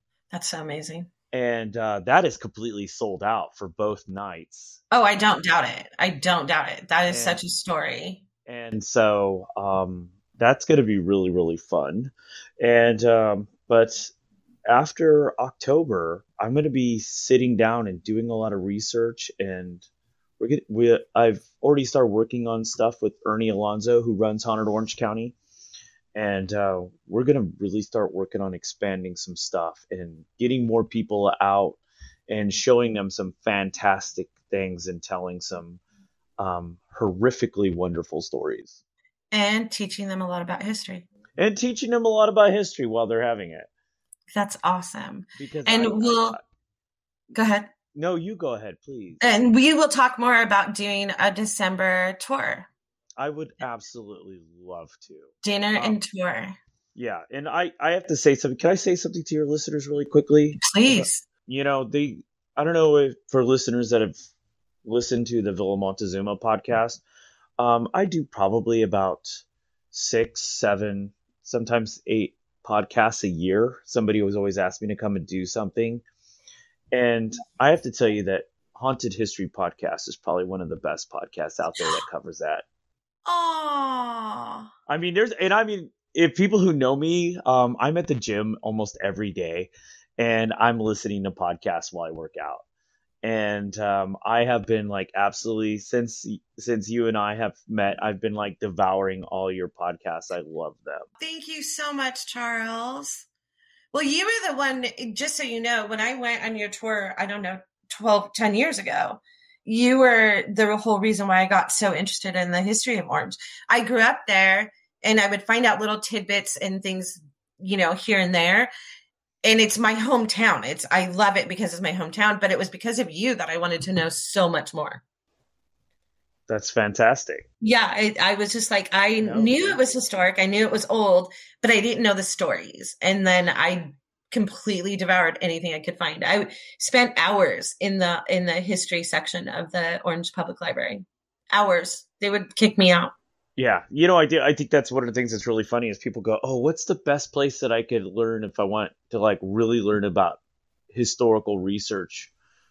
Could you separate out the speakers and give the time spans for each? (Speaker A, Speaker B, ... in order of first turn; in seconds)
Speaker A: 0.3-1.1, 4.9-8.2, 39.3-41.0, 44.3-46.4, 47.3-47.7, 49.2-52.7, 55.4-56.6, 60.6-61.2, 83.2-84.7, 101.2-103.2, 103.9-118.7, 119.4-125.0, 127.6-143.1
Speaker B: 1.3-4.8, 7.1-7.4, 8.4-14.1, 14.7-19.8, 20.4-25.3, 26.1-35.8, 36.4-38.8, 41.4-43.7, 45.4-46.4, 47.9-49.3, 53.2-56.0, 56.9-64.2, 64.8-67.0, 67.6-76.0, 76.9-82.6, 84.9-92.6, 93.2-101.1, 126.5-127.5, 129.2-129.8, 143.6-150.4, 150.9-152.3